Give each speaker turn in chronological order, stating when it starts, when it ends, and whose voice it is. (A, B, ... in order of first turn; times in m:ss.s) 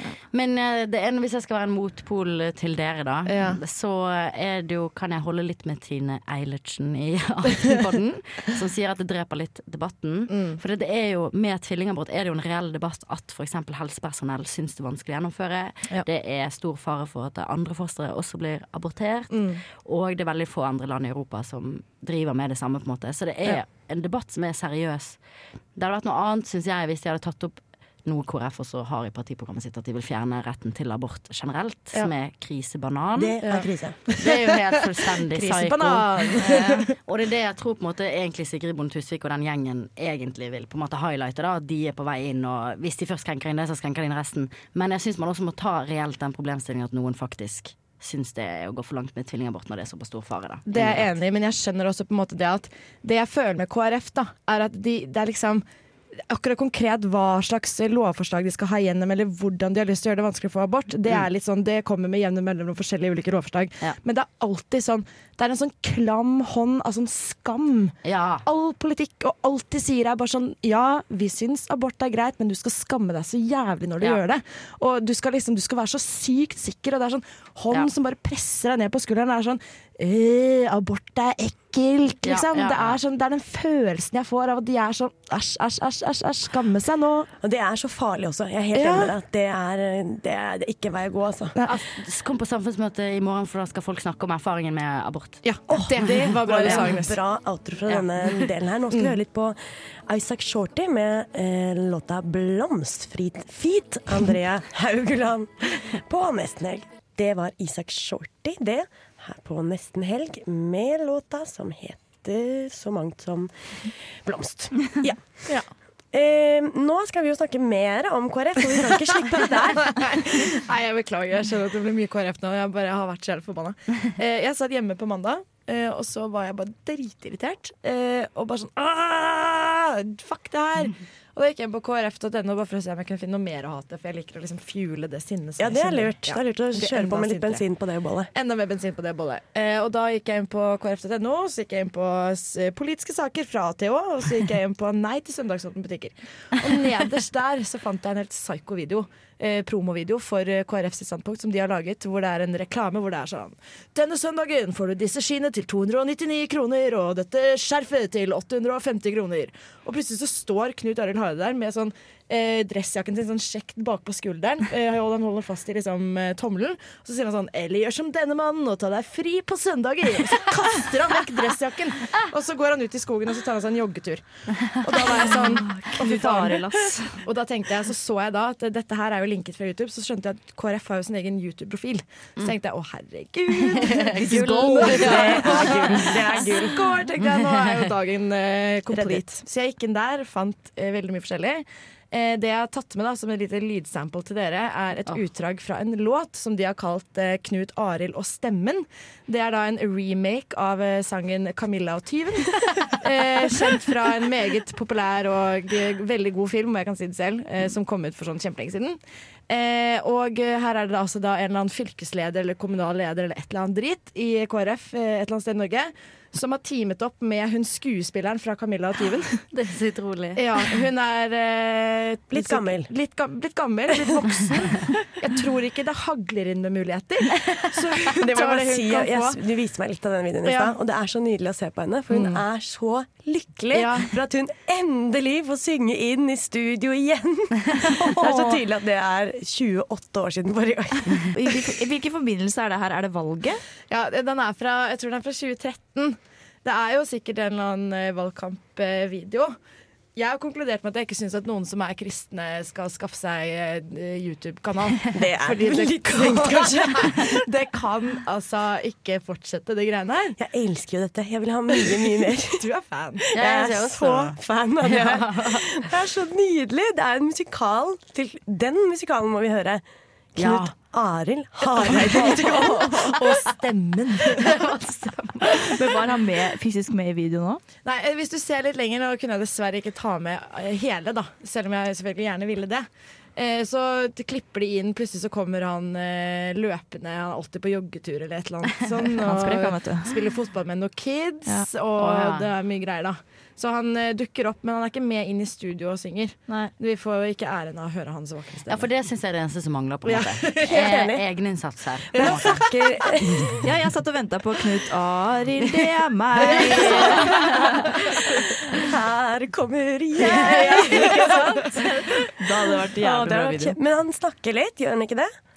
0:00.2-0:25.2 A
0:03.3-0:03.6 B
0:10.3-0:10.6 B
0:19.3-0:19.6 B
0:25.8-0:33.4 A
0:33.2-0:34.0 C
0:33.4-0:34.4 B
0:34.2-0:51.1 A
0:35.0-0:36.9 B
0:50.7-0:55.6 B
0:56.3-1:27.3 B
1:08.0-1:08.4 A
1:22.2-1:23.0 A
1:27.4-1:31.6 C
1:28.7-1:29.1 B
1:31.6-1:35.4 A
1:35.4-1:37.2 B
1:35.7-1:55.5 C
1:56.1-2:00.2 C
1:59.3-2:17.6 B
2:15.6-2:18.3 C
2:18.3-2:54.2 B
2:54.7-3:39.4 B
2:55.2-2:57.2 D
3:03.7-3:06.2 A
3:04.2-3:06.9 C
3:08.9-3:09.2 C
3:39.5-3:40.4 A
3:40.3-3:49.4 B
3:42.3-3:42.9 C
3:48.1-4:01.4 C
3:50.4-3:50.7 B
3:52.1-3:52.4 B
3:53.7-3:54.1 B
3:57.9-3:58.6 B
4:01.3-4:03.6 D
4:03.9-4:09.5 B
4:10.2-4:20.4 B
4:15.1-4:17.4 C
4:20.4-4:22.6 C
4:22.4-4:23.9 B
4:23.3-4:25.6 A
4:23.3-4:29.8 C
4:30.3-4:33.4 C
4:30.4-4:30.7 A
4:31.7-4:34.7 B
4:34.4-4:35.4 A
4:35.6-4:37.6 D
4:37.8-4:58.9 B
4:49.2-4:50.2 D
4:52.0-4:52.5 A
4:58.7-5:02.7 A
5:00.0-5:00.9 B
5:00.6-5:01.2 C
5:02.1-5:03.7 C
5:03.6-5:07.6 D
5:06.4-5:07.5 B
5:06.5-5:07.3 C
5:08.0-5:11.8 C
5:10.2-5:11.8 B
5:11.7-5:13.7 D
5:12.9-5:15.3 C